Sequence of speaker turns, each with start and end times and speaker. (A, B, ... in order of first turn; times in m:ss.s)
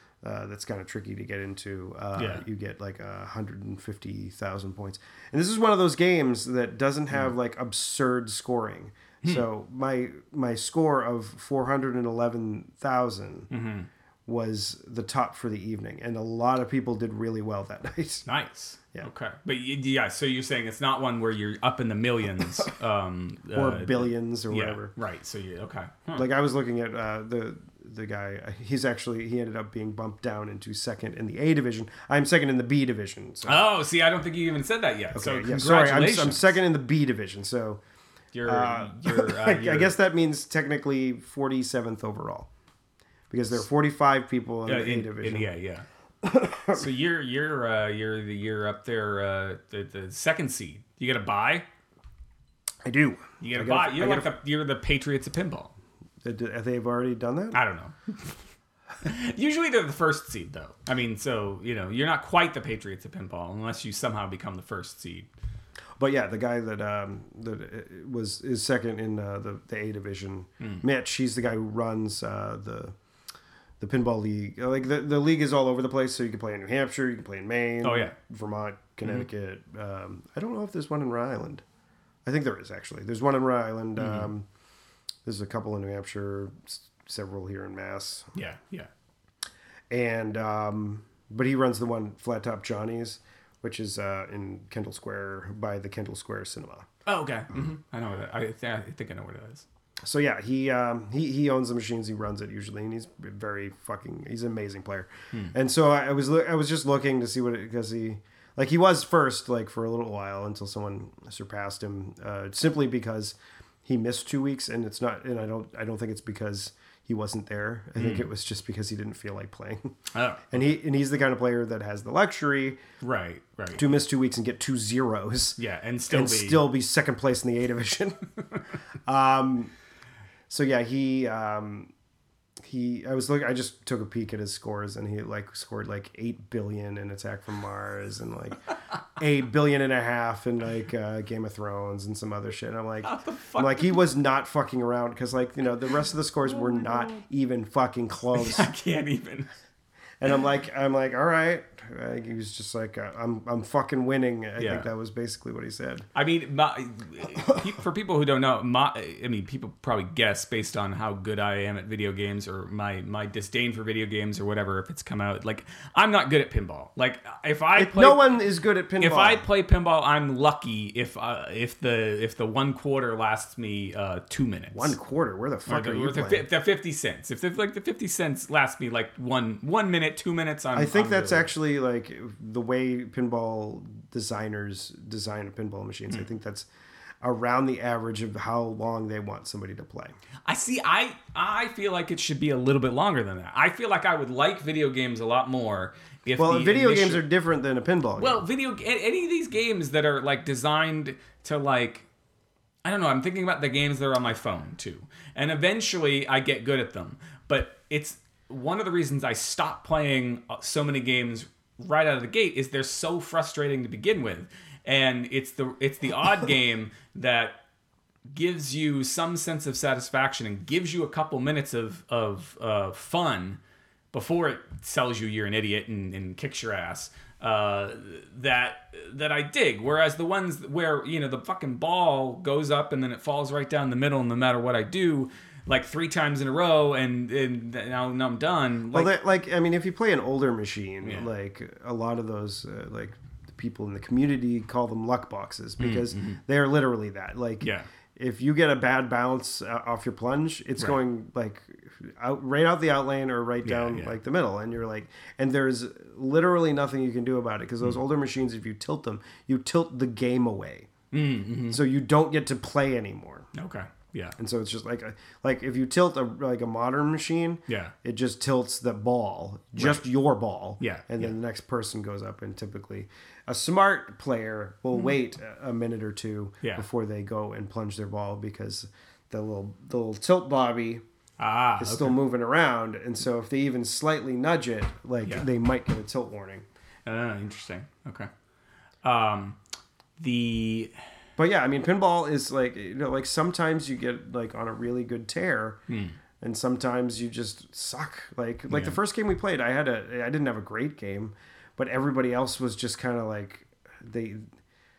0:00.2-0:13.5 A
0:02.2-0:02.4 B
0:13.5-0:13.9 B
0:14.3-0:18.3 A
0:18.2-0:26.3 B
0:23.5-0:24.9 A
0:26.1-0:33.7 A
0:33.5-0:36.5 B
0:35.1-0:37.8 A
0:38.3-0:39.9 B
0:38.5-0:42.5 A
0:43.3-0:45.5 A
0:44.7-0:45.9 B
0:46.2-0:46.8 A
0:46.7-0:51.7 B
0:52.8-0:54.3 A
0:53.4-0:55.7 B
0:56.2-0:57.6 A
0:57.5-0:58.4 B
0:59.0-1:05.3 B
1:06.0-1:13.0 A
1:13.8-1:21.6 A
1:17.8-1:18.1 B
1:22.2-1:24.5 A
1:24.0-1:24.3 B
1:25.2-1:28.3 A
1:28.4-1:28.9 B
1:29.9-1:36.9 A
1:37.1-1:39.7 B
1:40.0-2:00.0 A
1:58.0-1:58.3 B
2:00.1-2:00.5 B
2:00.5-2:02.8 A
2:03.0-2:03.8 B
2:03.7-2:08.2 A
2:05.6-2:06.7 B
2:09.1-2:09.7 A
2:10.5-2:11.9 A
2:12.6-2:28.7 A
2:23.0-2:24.0 B
2:26.6-2:27.2 B
2:28.3-2:29.5 B
2:30.2-2:36.1 A
2:34.6-2:34.9 B
2:36.1-2:48.4 B
2:47.8-2:49.4 A
2:49.0-2:55.0 B
2:54.7-2:56.4 A
2:55.7-3:01.5 B
3:00.7-3:06.7 A
3:07.2-3:10.2 A
3:10.4-3:17.2 B
3:16.4-3:18.4 A
3:18.2-3:22.1 B
3:22.8-3:37.6 B
3:38.3-3:43.6 B
3:44.1-3:59.1 B
3:58.9-4:20.9 A
4:01.0-4:01.3 B
4:05.8-4:06.4 B
4:07.6-4:07.9 B
4:13.6-4:14.1 B
4:21.1-4:21.8 B
4:21.7-4:23.5 A
4:23.5-4:24.4 B
4:24.4-4:41.0 A
4:27.7-4:27.9 B
4:29.8-4:30.0 B
4:30.8-4:31.3 B
4:41.4-4:42.2 B
4:41.8-4:46.7 A
4:47.1-4:48.3 B
4:49.0-4:49.6 B
4:50.2-4:51.0 B
4:51.4-4:55.8 A
4:55.9-4:56.2 B
4:56.4-5:04.4 A
4:58.7-4:59.0 B